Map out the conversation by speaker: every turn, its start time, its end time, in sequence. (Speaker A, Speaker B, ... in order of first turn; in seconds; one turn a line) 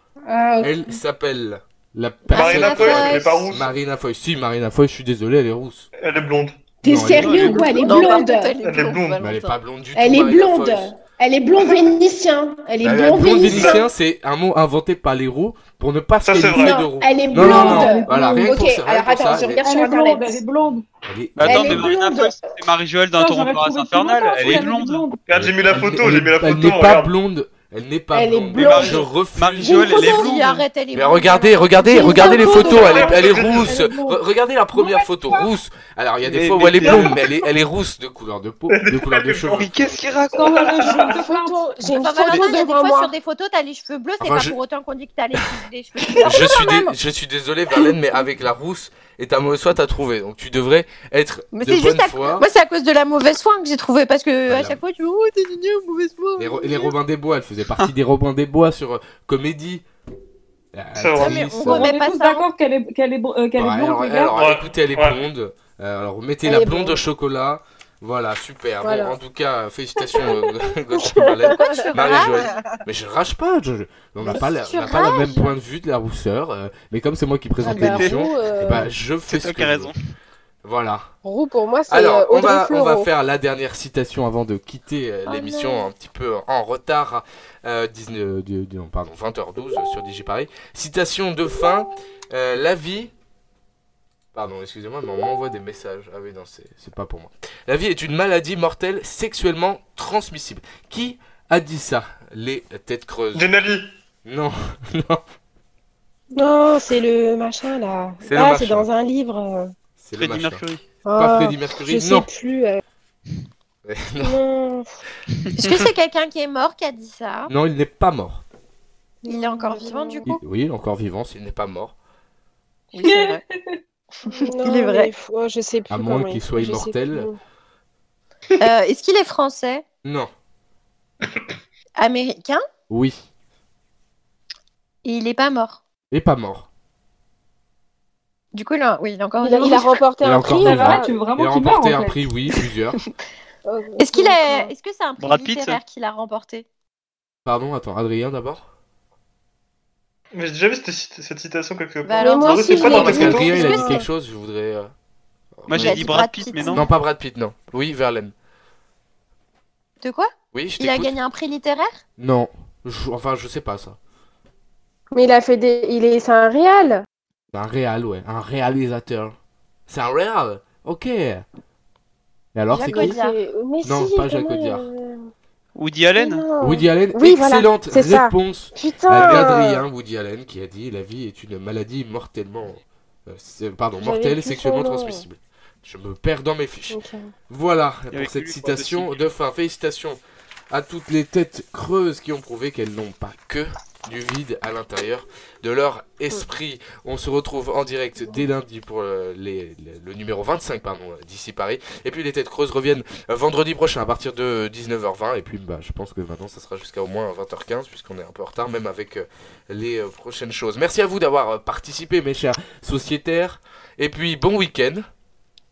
Speaker A: 0.3-1.0
Speaker B: 0.6-5.9
Speaker C: 2.3-3.4
Speaker D: 2.3-3.7
Speaker D: 6.0-6.6
Speaker A: 6.8-8.5
Speaker B: 6.8-7.6
Speaker E: 7.2-7.8
Speaker C: 7.5-9.6
Speaker D: 8.6-9.2
Speaker B: 9.2-10.9
Speaker A: 9.9-13.8
Speaker B: 12.8-19.6
Speaker D: 13.1-13.8
Speaker D: 16.2-16.8
Speaker A: 16.5-20.4
Speaker F: 17.3-18.5
Speaker F: 19.6-20.9
Speaker B: 21.1-21.9
Speaker E: 21.4-25.1
Speaker A: 21.4-22.4
Speaker F: 23.1-25.2
Speaker D: 25.3-27.1
Speaker B: 25.3-30.1
Speaker A: 28.1-29.1
Speaker E: 28.6-30.6
Speaker F: 29.6-30.2
Speaker A: 29.8-30.2
Speaker C: 30.1-32.8
Speaker B: 30.9-39.7
Speaker A: 31.9-33.4
Speaker F: 31.9-34.2
Speaker D: 32.8-33.7
Speaker F: 34.7-35.5
Speaker E: 36.2-37.2
Speaker F: 36.9-37.2
Speaker D: 38.7-41.1
Speaker E: 39.6-40.5
Speaker F: 40.4-41.7
Speaker A: 41.1-43.1
Speaker C: 42.0-46.9
Speaker B: 44.2-44.6
Speaker B: 46.2-52.5
Speaker C: 51.5-56.9
Speaker B: 54.5-54.8
Speaker B: 56.4-59.8
Speaker B: 60.7-61.9
Speaker D: 61.0-61.5
Speaker C: 61.2-62.5
Speaker F: 61.6-64.5
Speaker B: 63.5-79.9
Speaker D: 64.3-65.2
Speaker A: 66.5-67.0
Speaker A: 68.8-69.2
Speaker A: 70.9-71.9
Speaker C: 71.5-72.7
Speaker C: 74.3-75.5
Speaker A: 77.6-78.9
Speaker E: 77.8-78.2
Speaker E: 79.3-80.0
Speaker B: 80.6-81.1
Speaker A: 81.2-83.1
Speaker B: 81.9-93.1
Speaker C: 85.3-85.9
Speaker B: 94.3-103.5
Speaker D: 103.3-103.9
Speaker B: 104.2-105.2
Speaker A: 106.3-109.7
Speaker B: 108.2-108.9
Speaker B: 110.0-110.6
Speaker E: 110.2-110.8
Speaker A: 111.0-112.8
Speaker B: 111.2-112.3
Speaker B: 113.8-114.4
Speaker A: 114.2-115.0
Speaker E: 115.5-115.8
Speaker C: 115.6-117.5
Speaker B: 117.5-118.4
Speaker A: 119.2-120.4
Speaker C: 119.3-120.4
Speaker B: 120.3-122.0
Speaker C: 122.9-123.4
Speaker F: 123.0-123.8
Speaker C: 124.2-125.1
Speaker A: 124.5-127.4
Speaker B: 125.9-127.3
Speaker C: 128.6-129.8
Speaker B: 130.1-130.3
Speaker C: 132.0-132.6
Speaker B: 132.9-133.3
Speaker C: 135.0-135.8
Speaker B: 136.1-136.7
Speaker C: 138.5-140.1
Speaker A: 139.4-141.2
Speaker B: 140.2-143.0
Speaker F: 140.4-142.3
Speaker A: 143.7-144.7
Speaker C: 144.0-146.7
Speaker E: 145.2-145.8
Speaker B: 147.5-148.7
Speaker D: 150.3-153.8
Speaker C: 152.0-154.1
Speaker A: 152.2-154.1
Speaker B: 152.8-154.9
Speaker B: 155.6-158.3
Speaker E: 155.7-156.9
Speaker C: 155.7-156.9
Speaker C: 160.0-162.0
Speaker B: 160.5-161.2
Speaker B: 162.2-164.0
Speaker A: 165.1-167.1
Speaker B: 167.5-169.3
Speaker B: 169.9-171.5
Speaker B: 172.6-173.2
Speaker C: 172.7-173.4
Speaker A: 172.9-175.2
Speaker B: 173.8-174.9
Speaker E: 175.8-176.4
Speaker A: 176.2-179.8
Speaker B: 176.6-190.2
Speaker A: 184.0-185.3
Speaker A: 186.9-187.3
Speaker E: 188.1-189.2
Speaker B: 190.7-215.1